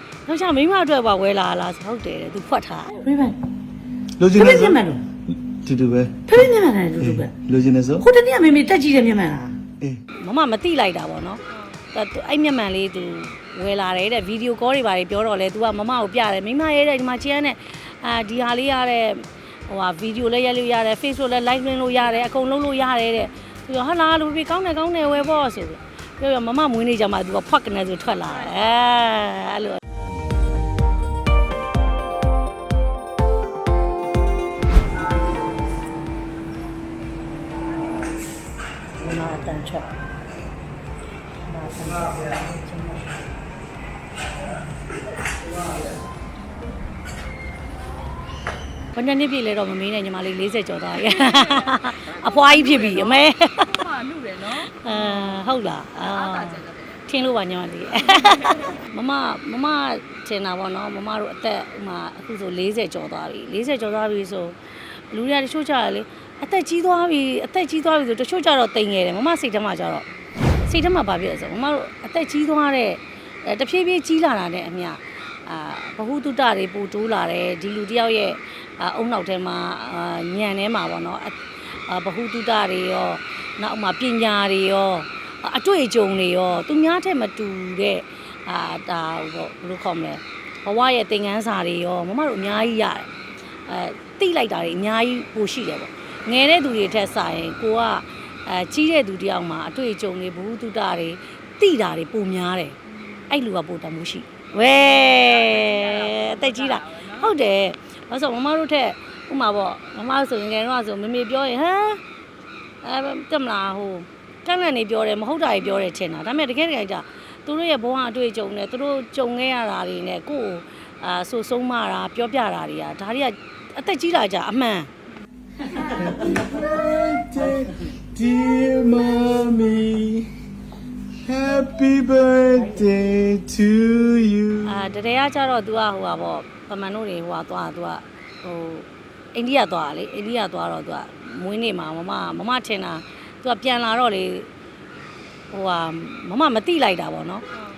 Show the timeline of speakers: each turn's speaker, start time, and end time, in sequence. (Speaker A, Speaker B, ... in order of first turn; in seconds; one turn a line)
Speaker A: 0.2-3.0
Speaker B: 2.9-3.4
Speaker C: 4.2-8.0
Speaker B: 4.3-5.0
Speaker B: 6.3-7.3
Speaker B: 8.0-9.6
Speaker A: 10.1-29.8
Speaker A: 39.0-39.8
Speaker A: 41.5-43.0
Speaker B: 41.7-42.2
Speaker A: 48.9-53.9
Speaker D: 51.6-53.2
Speaker D: 53.8-54.7
Speaker A: 54.5-70.0
Speaker D: 56.2-56.9
Speaker A: 70.6-93.1
Speaker A: 93.6-102.8
Speaker A: 103.3-112.0
Speaker D: 105.0-107.2
Speaker A: 112.8-124.9
Speaker C: 125.9-130.3
Speaker C: 131.2-134.8
Speaker A: 134.6-144.5
Speaker A: 145.5-147.4